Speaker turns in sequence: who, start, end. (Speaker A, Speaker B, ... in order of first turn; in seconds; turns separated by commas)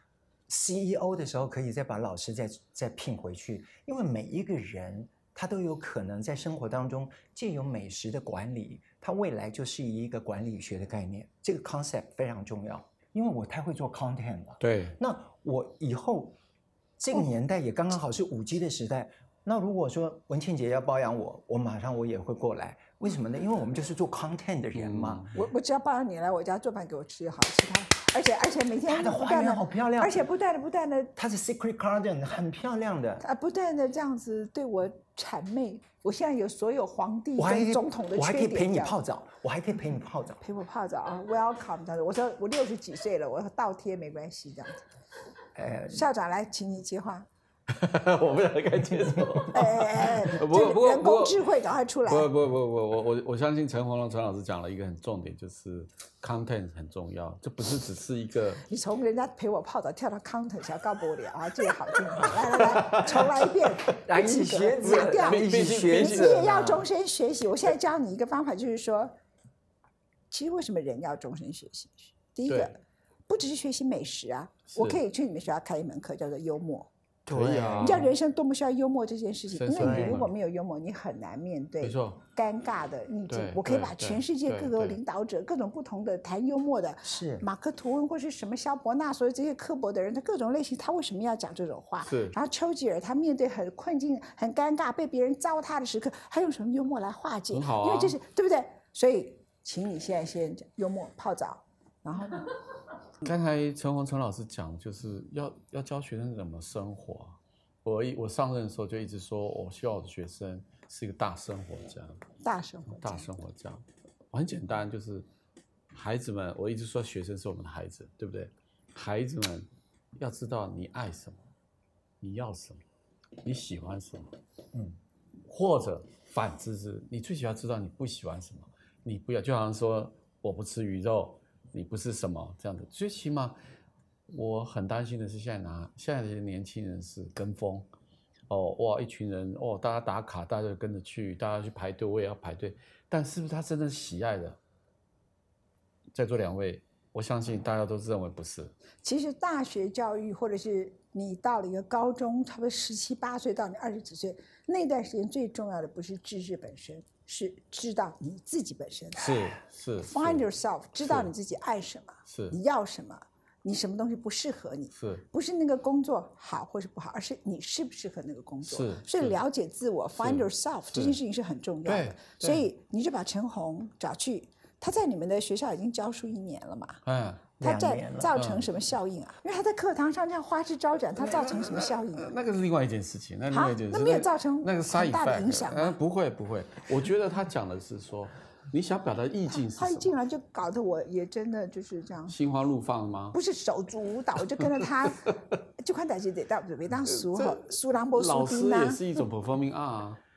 Speaker A: 0.5-16.4, Speaker B: 14.6-15.0, Speaker A: 17.0-25.4, Speaker B: 24.8-25.4, Speaker C: 25.3-31.1, Speaker A: 28.9-30.2, Speaker A: 31.2-33.2, Speaker C: 33.2-39.0, Speaker A: 37.4-40.4, Speaker C: 40.4-44.9, Speaker A: 45.5-46.0, Speaker C: 45.9-47.3, Speaker B: 47.7-51.4, Speaker C: 49.5-52.3, Speaker B: 52.0-58.6, Speaker C: 58.7-69.1, Speaker B: 62.1-63.4, Speaker A: 64.0-66.5, Speaker B: 64.8-66.9, Speaker C: 70.3-76.9, Speaker B: 72.5-72.8, Speaker B: 74.7-75.0, Speaker A: 77.3-78.1, Speaker B: 77.3-78.1, Speaker C: 77.8-102.5, Speaker B: 79.5-80.3, Speaker A: 79.7-80.3, Speaker B: 81.8-82.2, Speaker B: 83.3-85.0, Speaker A: 87.0-87.5, Speaker B: 92.0-92.4, Speaker B: 97.5-98.2, Speaker B: 103.2-112.2, Speaker C: 112.4-113.3, Speaker B: 112.9-115.3, Speaker B: 115.9-121.4, Speaker B: 122.2-122.8, Speaker B: 123.4-124.3, Speaker B: 125.5-133.6, Speaker B: 134.3-137.9, Speaker B: 138.5-144.6, Speaker B: 146.1-148.7, Speaker C: 149.0-177.0, Speaker B: 159.2-160.5, Speaker B: 161.0-161.3, Speaker B: 162.3-162.6, Speaker B: 164.9-165.2, Speaker B: 168.7-169.4, Speaker B: 170.2-171.2, Speaker B: 171.8-172.7, Speaker B: 177.0-177.5, Speaker A: 177.6-178.3, Speaker C: 177.6-182.3, Speaker B: 178.3-178.7, Speaker B: 181.6-190.1, Speaker C: 183.5-186.0, Speaker C: 189.5-192.3, Speaker B: 192.3-193.4, Speaker C: 193.3-199.2, Speaker B: 197.0-200.2